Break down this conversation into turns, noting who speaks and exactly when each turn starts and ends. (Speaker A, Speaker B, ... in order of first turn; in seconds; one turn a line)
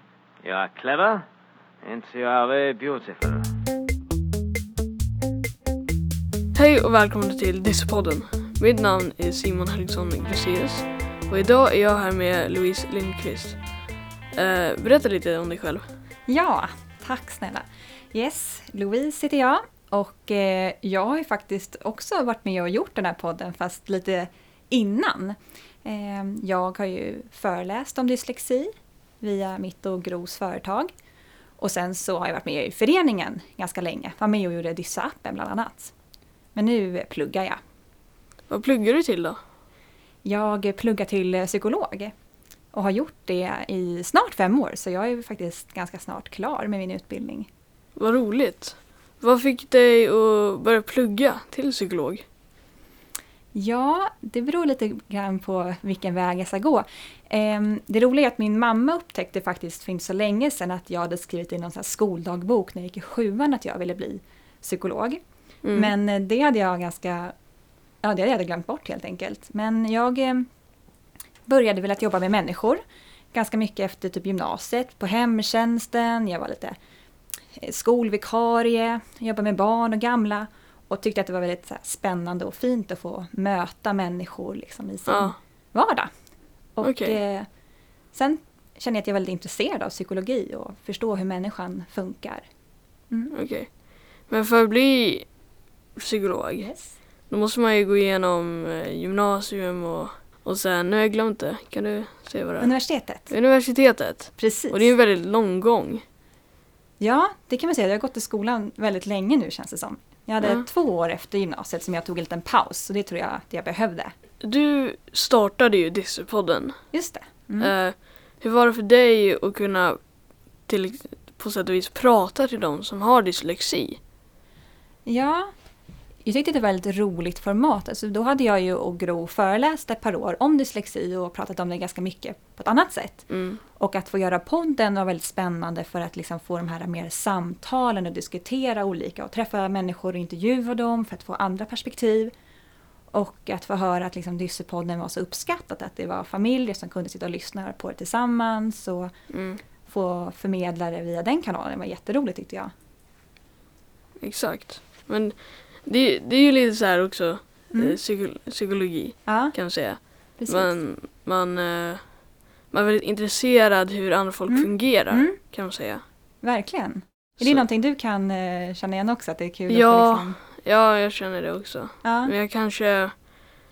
Speaker A: 0.4-1.2
Speaker A: 1.8-3.4
Speaker B: 6.5-15.9
Speaker C: 16.3-30.9
Speaker C: 31.6-35.9
Speaker C: 36.5-37.6
Speaker B: 38.5-39.4
Speaker C: 40.2-42.1
Speaker C: 42.7-47.5
Speaker B: 48.0-52.2
Speaker C: 53.5-67.3
Speaker B: 65.6-66.0
Speaker C: 68.0-70.5
Speaker C: 71.5-72.8
Speaker C: 73.3-76.8
Speaker C: 77.5-86.1
Speaker B: 85.1-85.4
Speaker C: 86.7-87.5
Speaker B: 86.8-87.2
Speaker C: 88.1-92.5
Speaker B: 93.3-95.4
Speaker B: 95.9-106.0
Speaker C: 96.6-97.0
Speaker C: 102.6-103.3
Speaker C: 104.4-104.9
Speaker C: 107.0-114.1
Speaker B: 114.4-116.9
Speaker C: 116.9-117.8
Speaker B: 117.6-124.0
Speaker C: 125.1-125.5
Speaker C: 126.2-142.3
Speaker B: 133.3-133.6
Speaker C: 143.1-149.1
Speaker B: 149.3-149.6
Speaker C: 149.8-152.7
Speaker B: 154.2-166.0
Speaker C: 157.7-158.0
Speaker C: 159.3-160.8
Speaker C: 164.5-165.4
Speaker C: 166.4-170.4
Speaker B: 169.7-173.6
Speaker C: 172.0-172.3